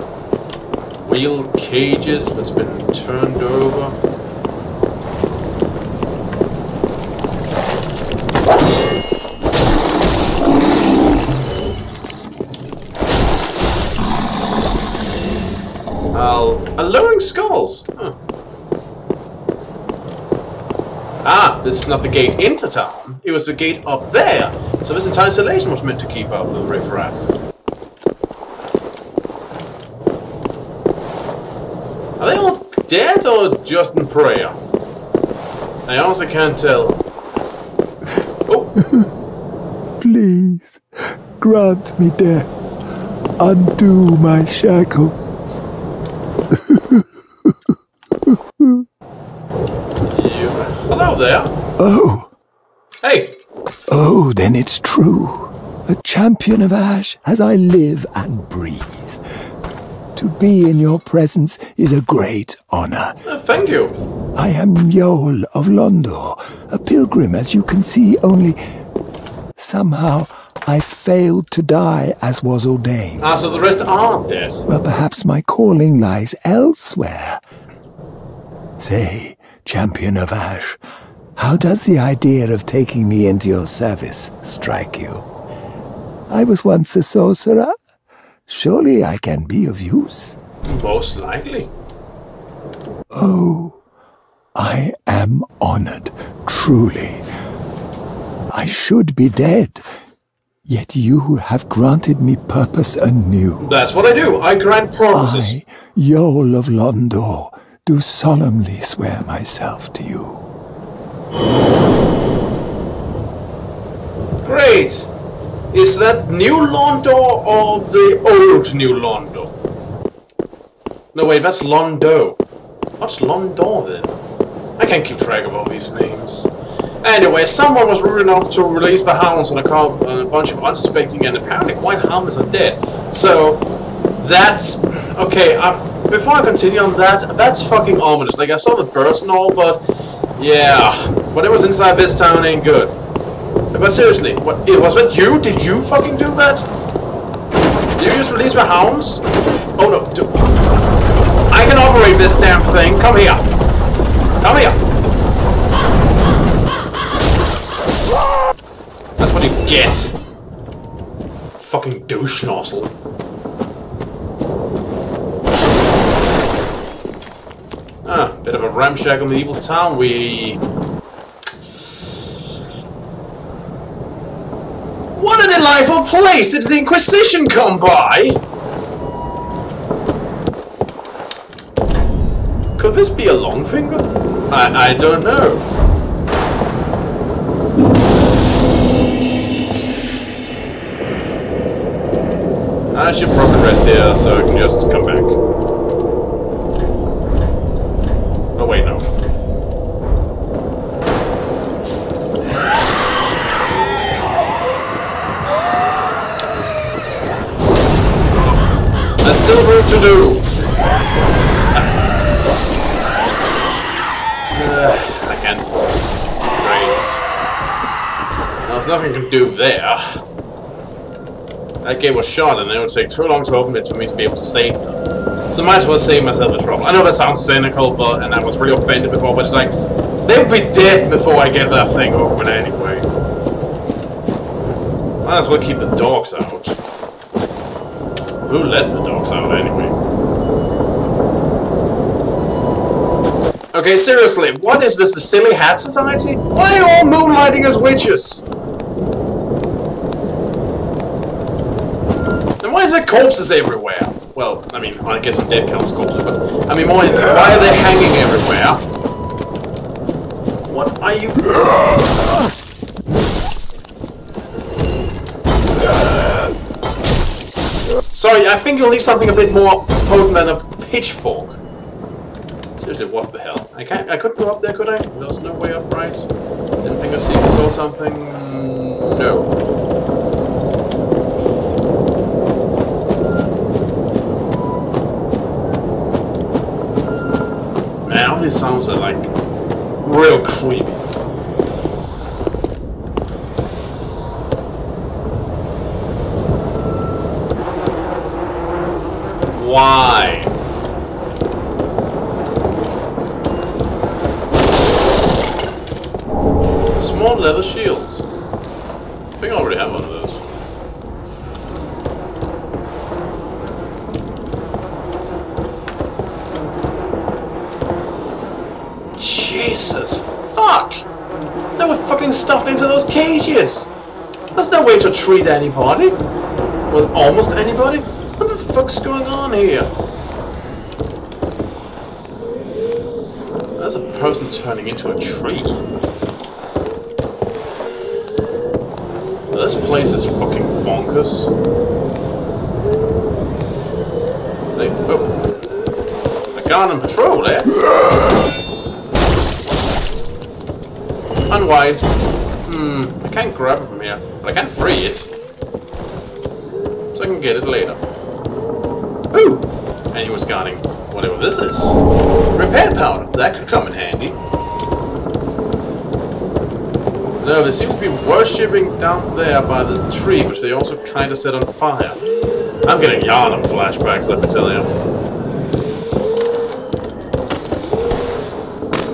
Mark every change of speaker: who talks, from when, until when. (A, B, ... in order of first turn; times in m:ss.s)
0:01.0-0:04.0 A
0:16.1-0:18.2 A
0:21.2-0:27.3 A
0:32.2-0:34.6 A
0:35.9-0:37.0 A
0:38.5-0:38.7 A
0:40.0-0:40.8 B
0:41.4-0:42.6 B
0:43.4-0:45.4 B
0:46.6-0:47.6 B
0:48.3-0:48.8 B
0:50.1-0:51.5 A
0:51.8-0:52.3 B
0:53.0-0:53.4 A
0:53.9-0:59.2 B
1:00.2-1:03.2 B
1:03.2-1:04.0 A
1:04.4-1:08.6 B
1:09.6-1:13.2 B
1:13.2-1:14.6 A
1:14.7-1:17.4 B
1:18.8-1:20.8 B
1:21.4-1:25.3 B
1:26.3-1:27.7 B
1:28.5-1:30.4 B
1:30.7-1:31.7 A
1:33.1-1:33.8 B
1:34.6-1:37.3 B
1:38.5-1:39.9 B
1:40.6-1:43.7 B
1:43.6-1:45.6 A
1:45.1-1:50.5 B
1:54.4-1:55.1 A
1:55.7-1:59.5 A
2:01.1-2:02.4 A
2:03.0-2:04.2 A
2:04.8-2:13.6 A
2:14.2-2:19.8 A
2:20.4-2:22.9 A
2:23.7-2:26.7 A
2:28.0-2:29.2 A
2:29.8-2:30.3 A
2:31.5-2:33.5 A
2:34.4-2:34.8 A
2:39.2-2:40.1 A
2:41.6-2:43.0 A
2:48.0-2:50.6 A
2:55.2-2:58.4 A
3:02.8-3:05.7 A
3:12.9-3:15.4 A
3:18.6-3:19.1 A
3:29.2-3:30.5 A
3:34.5-3:35.7 A
3:36.6-3:37.2 A
3:38.6-3:40.2 A
3:41.8-3:45.0 A
3:45.5-3:49.7 A
3:50.2-3:53.1 A
3:55.2-3:56.8 A
3:58.4-4:00.0 A
4:03.7-4:08.4 A
4:12.6-4:18.8 A
4:20.7-4:21.5 A
4:28.1-4:31.6 A
4:32.8-4:36.3 A
4:36.8-4:39.5 A
4:48.0-4:49.3 A
4:50.0-4:51.0 A
4:59.5-5:00.5 A
5:07.0-5:08.3 A
5:09.4-5:10.4 A
5:19.2-5:21.0 A
5:21.8-5:23.9 A
5:24.6-5:26.2 A
5:26.9-5:29.9 A
5:33.8-5:35.8 A
5:39.5-5:41.5 A
5:44.8-5:45.4 A
5:46.5-5:47.7 A
5:51.5-5:55.3 A
5:57.1-5:58.0 A
5:59.3-6:02.0 A
6:02.5-6:04.4 A
6:07.4-6:12.2 A
6:12.9-6:14.9 A